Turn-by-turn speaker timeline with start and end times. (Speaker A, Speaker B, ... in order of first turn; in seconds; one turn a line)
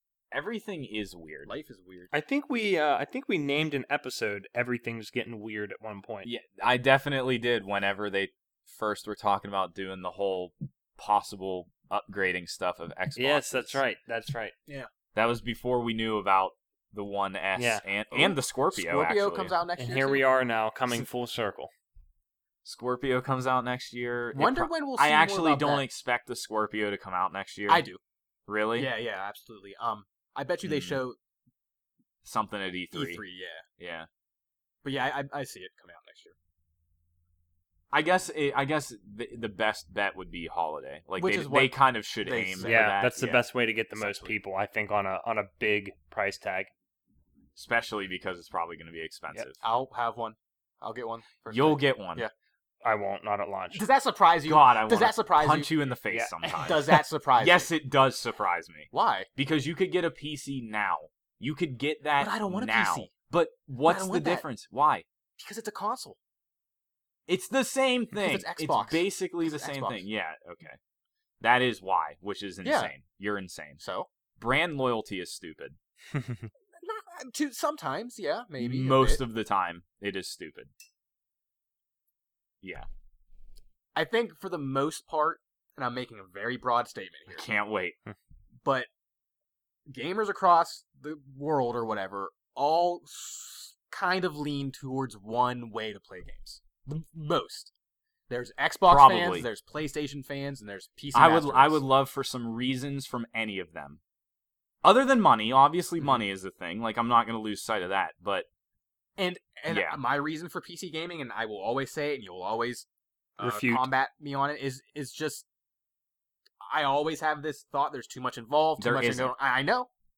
Speaker A: 0.3-1.5
Speaker B: 1.4-2.1
Speaker C: 2.1-6.3
Speaker A: 6.2-13.8
Speaker C: 13.2-14.5
Speaker A: 15.1-19.6
Speaker C: 17.6-17.8
Speaker B: 18.1-20.2
Speaker C: 19.8-21.7
Speaker A: 22.6-27.9
Speaker B: 24.3-25.9
Speaker B: 27.7-28.0
Speaker A: 28.5-28.9
Speaker B: 28.8-31.2
Speaker A: 30.6-31.0
Speaker A: 32.2-33.2
Speaker B: 32.9-33.6
Speaker A: 33.8-34.1
Speaker B: 34.8-36.4
Speaker A: 37.9-43.4
Speaker B: 41.2-42.9
Speaker C: 42.6-46.7
Speaker B: 44.0-44.4
Speaker A: 47.5-49.6
Speaker B: 49.6-52.3
Speaker A: 51.5-52.3
Speaker C: 52.8-53.8
Speaker B: 53.7-55.7
Speaker A: 54.5-65.1
Speaker C: 56.1-56.4
Speaker B: 56.5-57.7
Speaker B: 58.9-59.3
Speaker B: 62.2-63.1
Speaker B: 63.9-64.5
Speaker B: 65.4-66.2
Speaker A: 67.3-70.8
Speaker B: 68.1-70.0
Speaker A: 71.4-73.8
Speaker B: 72.6-72.9
Speaker B: 73.8-74.1
Speaker A: 74.4-75.8
Speaker C: 76.1-76.5
Speaker B: 76.8-79.2
Speaker A: 78.6-80.7
Speaker A: 82.6-82.9
Speaker B: 84.0-87.5
Speaker A: 87.3-88.0
Speaker B: 88.6-88.9
Speaker B: 89.9-97.7
Speaker B: 98.3-101.8
Speaker A: 98.9-99.5
Speaker A: 101.1-104.0
Speaker A: 104.8-108.5
Speaker B: 109.2-112.9
Speaker A: 109.7-110.0
Speaker C: 113.4-113.9
Speaker B: 113.4-115.5
Speaker B: 116.6-119.9
Speaker A: 118.8-119.3